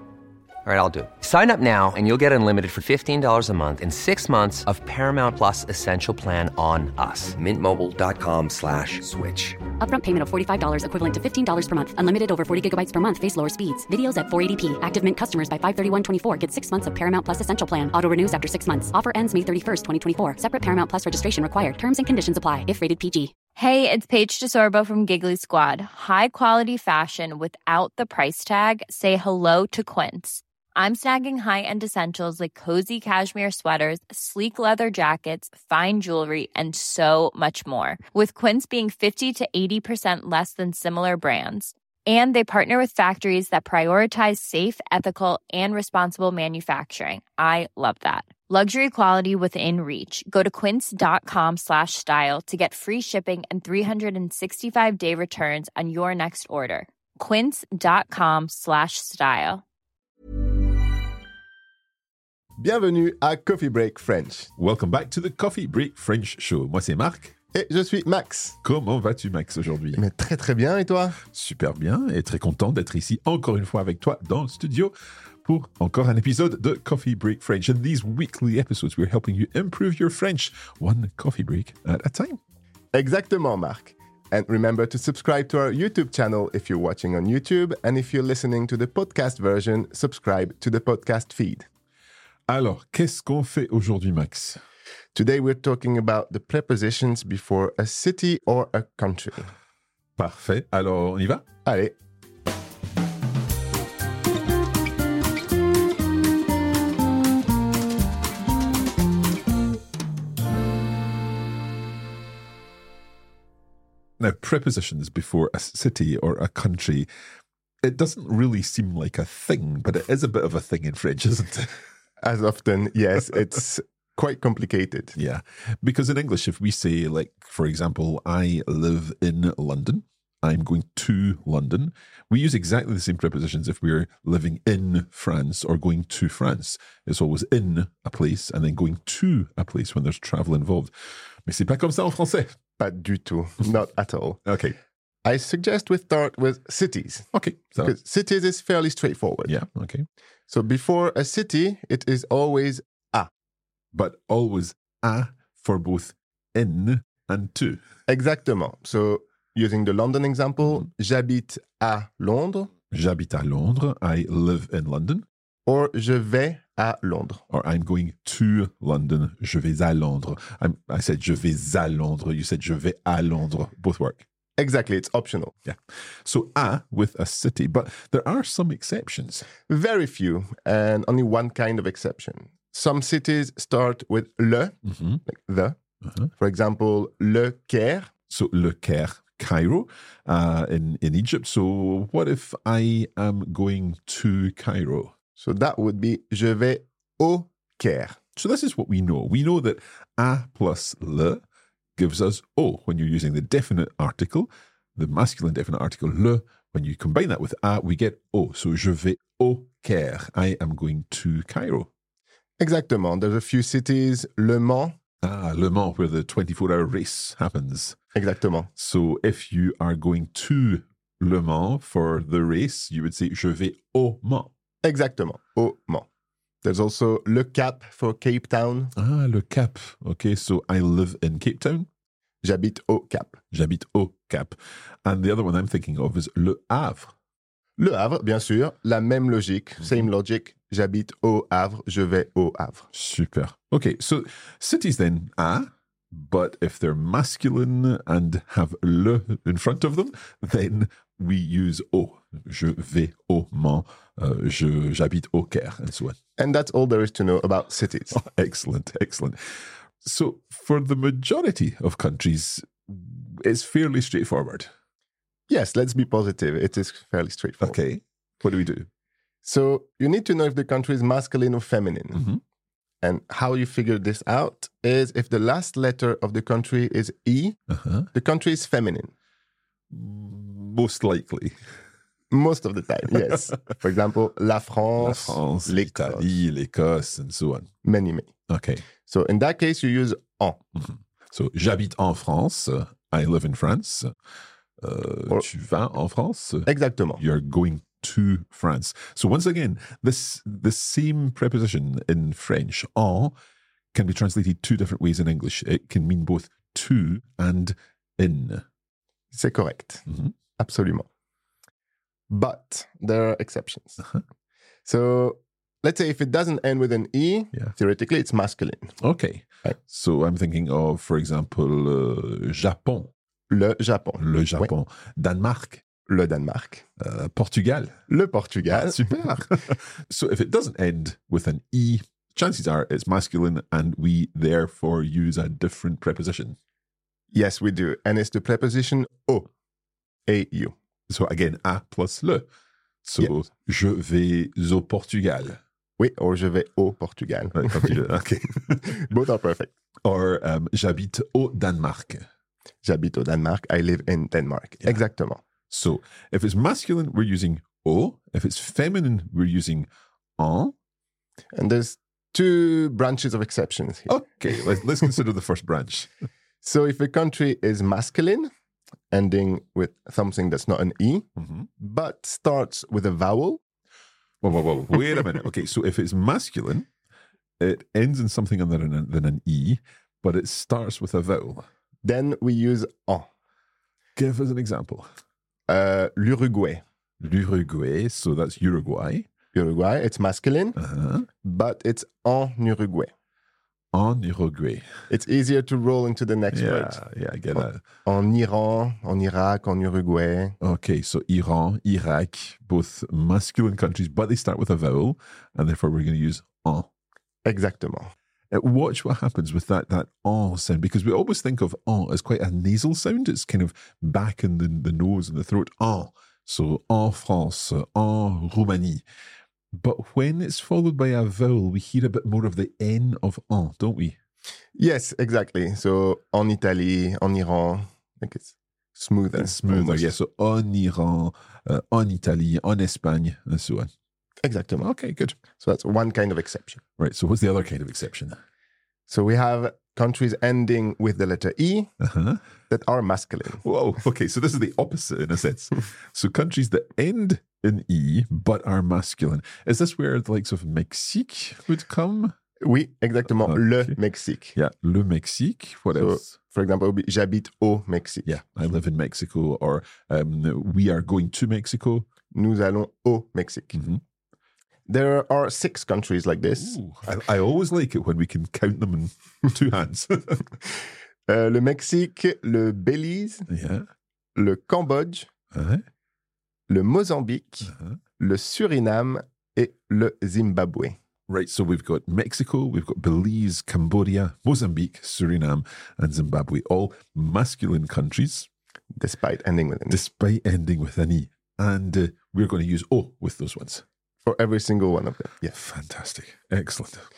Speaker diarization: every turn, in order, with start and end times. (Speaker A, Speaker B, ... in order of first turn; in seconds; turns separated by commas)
Speaker A: 0.6-9.6, Speaker B: 9.8-23.3, Speaker C: 23.6-59.6, Speaker D: 62.6-64.5, Speaker E: 64.6-67.3, Speaker D: 67.5-68.6, Speaker E: 68.6-70.0, Speaker D: 69.9-71.2, Speaker E: 71.2-74.9, Speaker E: 75.4-82.4, Speaker D: 82.9-91.7, Speaker E: 92.5-94.6, Speaker D: 95.1-99.5, Speaker E: 100.2-101.4, Speaker D: 101.6-101.9, Speaker E: 114.2-117.1, Speaker E: 117.8-121.8, Speaker D: 122.2-125.2, Speaker E: 125.2-140.9, Speaker E: 141.5-142.5, Speaker D: 142.8-144.4, Speaker E: 144.4-144.8, Speaker D: 145.2-149.6, Speaker E: 147.3-147.9, Speaker E: 149.4-150.1, Speaker D: 150.5-153.3, Speaker E: 153.9-157.8, Speaker D: 158.1-162.7, Speaker E: 162.9-165.2, Speaker D: 165.7-167.4, Speaker E: 167.5-174.2, Speaker D: 174.6-175.6, Speaker E: 175.7-179.4, Speaker D: 179.6-185.8, Speaker D: 186.3-188.1, Speaker E: 188.3-195.1, Speaker D: 195.4-198.2, Speaker E: 198.3-201.4, Speaker E: 202.0-211.9, Speaker D: 212.6-214.9, Speaker E: 215.2-217.9, Speaker D: 218.1-218.7, Speaker E: 218.8-224.5, Speaker D: 224.8-226.1, Speaker D: 226.6-228.9, Speaker E: 228.9-231.9, Speaker D: 232.4-233.4, Speaker E: 233.5-237.1, Speaker D: 237.8-242.9, Speaker E: 242.9-256.2, Speaker D: 256.4-258.2, Speaker E: 258.1-259.4, Speaker E: 260.0-264.7, Speaker D: 265.5-267.8, Speaker E: 267.6-268.9, Speaker D: 269.4-272.4, Speaker D: 273.0-277.6, Speaker D: 278.1-279.1, Speaker E: 279.9-281.6, Speaker D: 282.3-286.4, Speaker E: 285.0-287.7, Speaker D: 287.8-288.3, Speaker E: 288.5-288.8, Speaker D: 289.0-290.6, Speaker E: 290.8-294.1, Speaker E: 294.8-303.3, Speaker D: 296.7-297.2, Speaker E: 303.9-308.6, Speaker D: 309.3-310.0, Speaker D: 310.6-311.1, Speaker D: 312.3-314.0, Speaker D: 314.9-318.9, Speaker E: 319.0-323.1, Speaker D: 323.5-324.7, Speaker E: 324.2-325.8, Speaker D: 326.1-326.8, Speaker E: 327.0-328.0, Speaker D: 328.1-329.4, Speaker E: 328.7-336.6, Speaker D: 337.3-339.5, Speaker D: 340.3-340.7, Speaker E: 341.1-342.5, Speaker E: 343.0-345.6, Speaker D: 346.0-348.0, Speaker E: 347.6-349.0, Speaker D: 348.7-349.7, Speaker E: 350.0-352.2, Speaker D: 352.8-355.4, Speaker E: 355.7-359.9, Speaker E: 360.4-360.7, Speaker D: 361.5-365.1, Speaker E: 364.1-366.1, Speaker D: 366.6-368.5, Speaker D: 369.1-371.2, Speaker E: 371.4-371.7, Speaker D: 371.8-373.6, Speaker E: 374.4-376.9, Speaker E: 377.6-381.7, Speaker D: 382.0-383.3, Speaker E: 384.1-385.1, Speaker D: 385.7-386.8, Speaker E: 387.2-389.3, Speaker D: 389.5-390.8, Speaker E: 390.8-391.3, Speaker D: 391.4-393.1, Speaker E: 393.9-394.8, Speaker D: 395.1-397.0, Speaker E: 396.5-397.8, Speaker D: 397.5-400.6, Speaker E: 400.6-406.9, Speaker D: 407.4-408.1, Speaker E: 408.5-419.0, Speaker E: 419.7-424.2, Speaker D: 424.8-430.1, Speaker E: 429.3-433.9, Speaker D: 434.4-434.9, Speaker E: 434.8-435.4, Speaker D: 435.6-436.8, Speaker E: 437.0-438.4, Speaker D: 439.1-441.9, Speaker E: 442.0-442.4, Speaker D: 442.7-443.6, Speaker E: 443.6-452.3, Speaker D: 452.6-454.6, Speaker E: 453.4-453.9, Speaker E: 454.5-456.4, Speaker D: 455.9-458.3, Speaker E: 458.2-462.1, Speaker D: 462.3-463.8, Speaker E: 463.7-464.0, Speaker D: 464.9-466.8, Speaker E: 466.6-470.5, Speaker D: 471.3-473.5, Speaker E: 473.5-473.9, Speaker D: 474.3-475.3, Speaker E: 475.5-475.8, Speaker D: 476.7-481.0, Speaker E: 477.7-478.0, Speaker E: 481.3-488.5, Speaker D: 489.0-490.0, Speaker E: 489.9-493.8, Speaker D: 494.2-495.5, Speaker E: 495.4-497.1